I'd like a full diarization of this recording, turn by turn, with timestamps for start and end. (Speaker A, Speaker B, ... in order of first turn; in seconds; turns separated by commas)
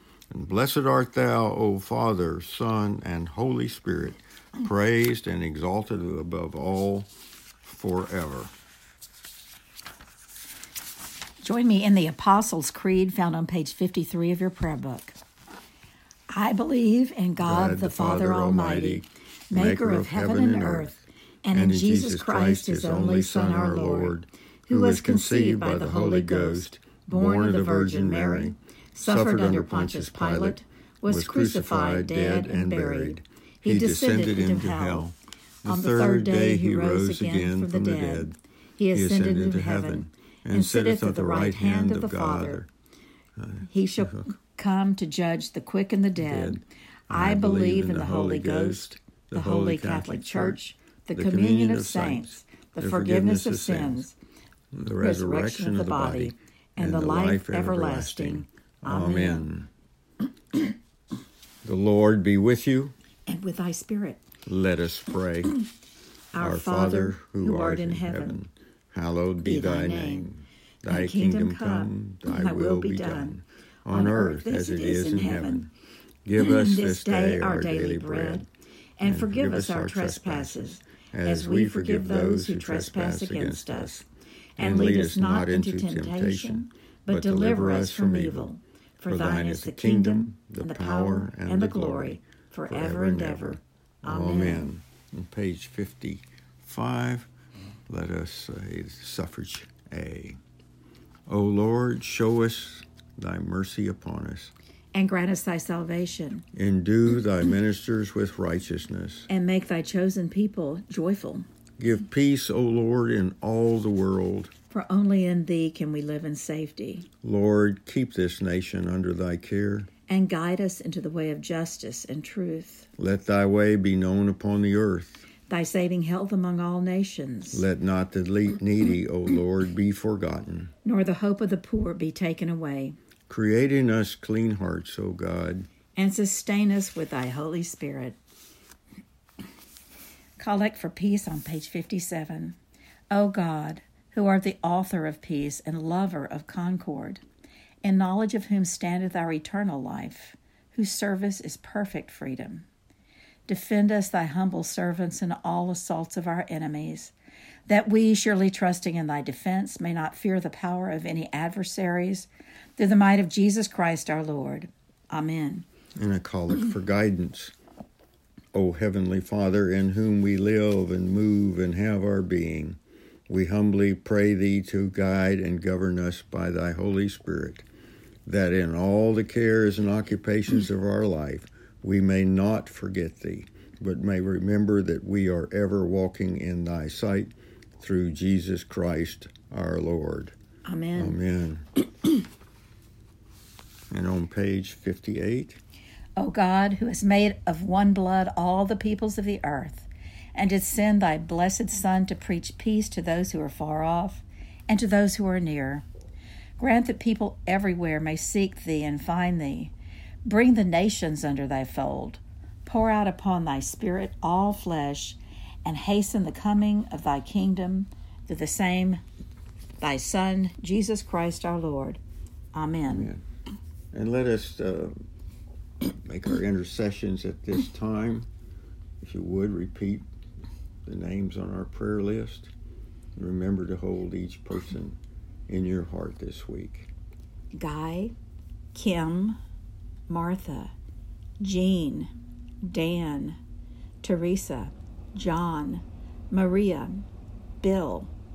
Speaker A: 0.3-7.1, Speaker A: 7.6-8.5, Speaker B: 11.4-15.2, Speaker B: 16.3-35.1, Speaker A: 17.4-38.4, Speaker B: 35.6-42.6, Speaker A: 38.9-42.7, Speaker A: 43.4-44.3, Speaker B: 43.7-54.2, Speaker A: 46.2-50.6, Speaker A: 51.1-54.1, Speaker A: 54.7-59.7, Speaker B: 55.0-59.5, Speaker A: 61.6-63.0, Speaker B: 63.3-64.2, Speaker A: 64.5-65.7, Speaker B: 66.3-68.4, Speaker A: 66.4-75.7, Speaker B: 69.4-70.3, Speaker B: 70.9-73.4, Speaker B: 73.9-75.7, Speaker A: 76.3-78.5, Speaker B: 76.4-78.5, Speaker B: 79.0-84.0, Speaker A: 79.0-84.0, Speaker B: 84.6-94.7, Speaker A: 84.6-88.5, Speaker A: 89.1-97.3, Speaker A: 97.9-100.4, Speaker A: 101.3-104.5, Speaker B: 104.9-106.5, Speaker A: 106.5-109.3, Speaker B: 109.3-111.5, Speaker A: 111.8-114.5, Speaker B: 114.7-117.1, Speaker A: 117.2-119.9, Speaker B: 120.1-122.9, Speaker A: 123.0-125.3, Speaker B: 125.5-127.6, Speaker A: 127.5-130.7, Speaker B: 130.8-133.0, Speaker A: 133.3-135.7, Speaker B: 135.9-138.2, Speaker B: 140.4-142.6, Speaker B: 143.1-147.2, Speaker B: 147.8-152.7, Speaker B: 153.5-157.1, Speaker B: 157.7-165.7, Speaker A: 166.0-167.5, Speaker A: 168.5-172.8, Speaker A: 173.3-177.7, Speaker A: 178.3-190.4, Speaker B: 190.7-191.2, Speaker A: 191.0-191.8, Speaker A: 193.9-195.6, Speaker B: 196.2-205.9, Speaker B: 206.6-209.7, Speaker B: 210.2-219.0, Speaker B: 219.8-222.0, Speaker B: 222.5-223.1, Speaker A: 222.9-223.2, Speaker A: 223.9-225.0, Speaker A: 225.8-228.3, Speaker A: 229.0-230.0, Speaker A: 230.9-232.5, Speaker A: 233.2-235.0, Speaker A: 235.5-236.9, Speaker B: 237.5-238.1, Speaker B: 238.7-239.4, Speaker B: 240.1-240.7, Speaker B: 241.4-243.4, Speaker B: 244.0-247.1, Speaker B: 247.6-248.1